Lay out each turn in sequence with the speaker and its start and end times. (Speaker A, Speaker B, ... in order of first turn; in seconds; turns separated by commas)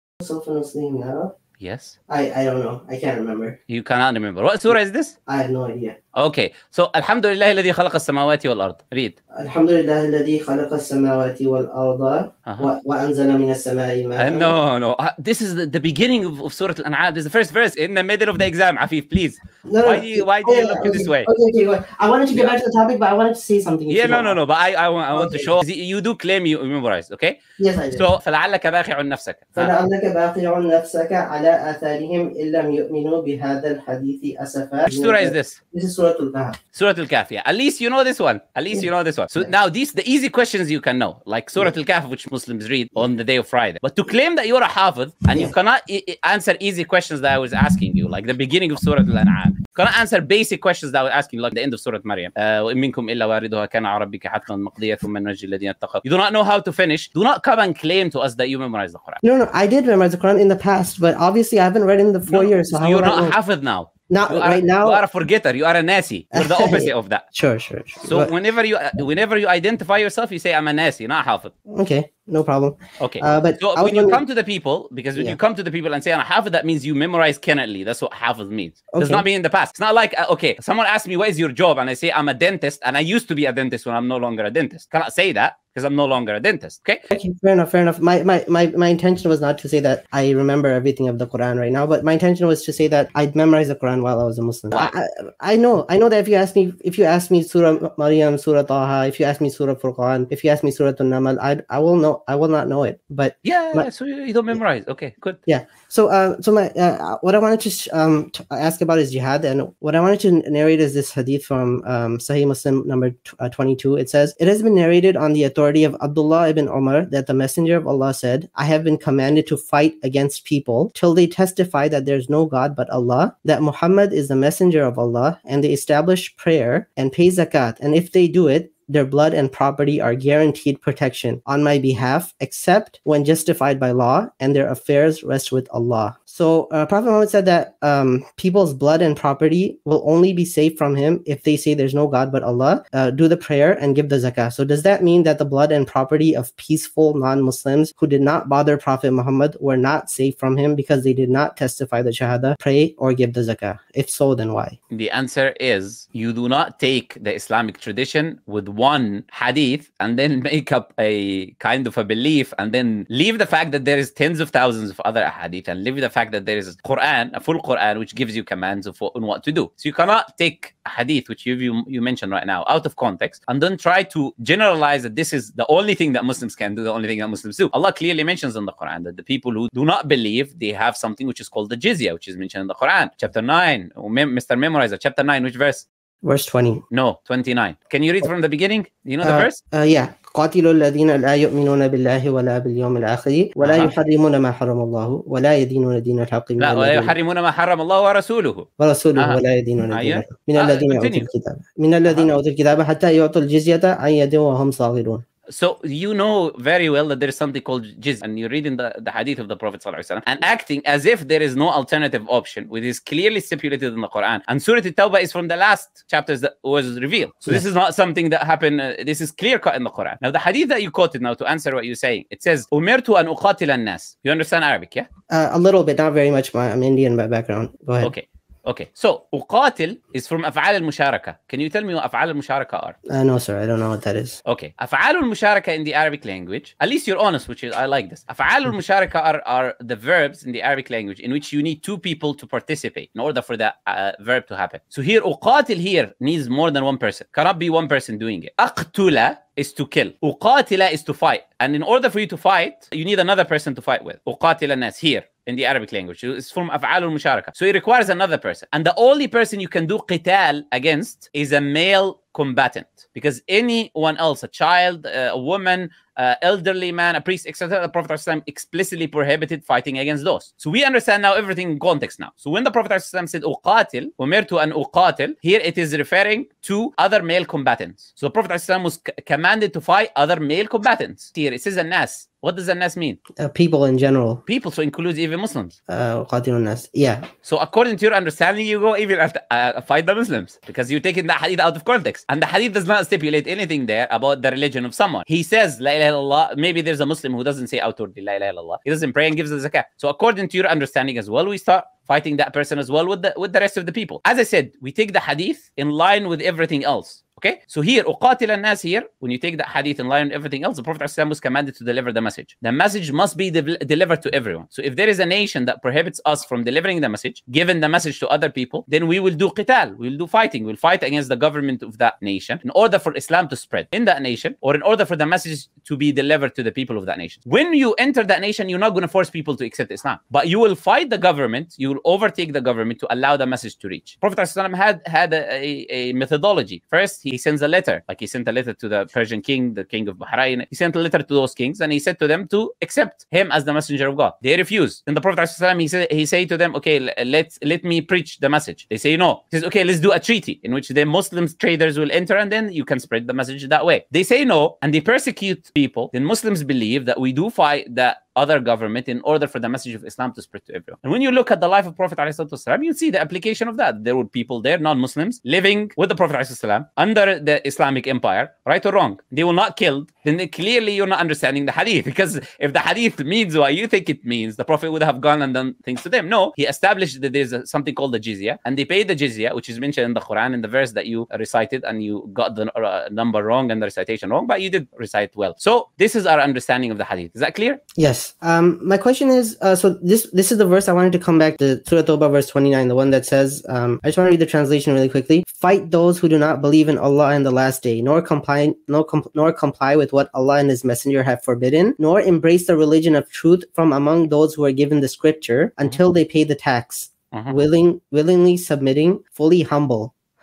Speaker A: 0.2-1.4, Speaker B: 1.6-2.0, Speaker A: 2.1-3.6, Speaker B: 3.7-5.2, Speaker A: 5.3-6.0, Speaker B: 6.2-9.2, Speaker A: 9.3-14.6, Speaker B: 12.5-12.7, Speaker B: 14.2-21.3, Speaker A: 19.6-24.4, Speaker B: 23.9-27.4, Speaker A: 25.1-25.6, Speaker A: 27.6-28.1, Speaker B: 27.9-29.7, Speaker A: 29.6-36.6, Speaker B: 34.9-35.6, Speaker B: 36.7-59.2, Speaker A: 38.7-39.5, Speaker A: 59.2-63.4, Speaker B: 62.3-67.2, Speaker A: 64.1-65.0, Speaker A: 66.3-68.3, Speaker B: 68.0-71.5, Speaker A: 71.7-74.2, Speaker B: 73.0-87.0, Speaker A: 78.9-79.3, Speaker A: 87.1-103.9, Speaker B: 103.4-105.4, Speaker A: 105.5-154.8, Speaker B: 154.9-185.9, Speaker A: 186.2-186.8, Speaker B: 186.9-189.6, Speaker A: 189.2-197.2, Speaker B: 193.6-193.9, Speaker B: 196.6-201.3, Speaker A: 198.8-205.2, Speaker B: 202.1-202.3, Speaker B: 205.5-225.1, Speaker A: 225.3-228.1, Speaker B: 228.0-233.0, Speaker A: 233.1-234.4, Speaker B: 234.5-283.2, Speaker A: 283.4-284.4, Speaker B: 284.5-285.8, Speaker A: 285.9-287.3, Speaker B: 287.4-387.8, Speaker A: 388.0-410.1, Speaker B: 407.3-407.6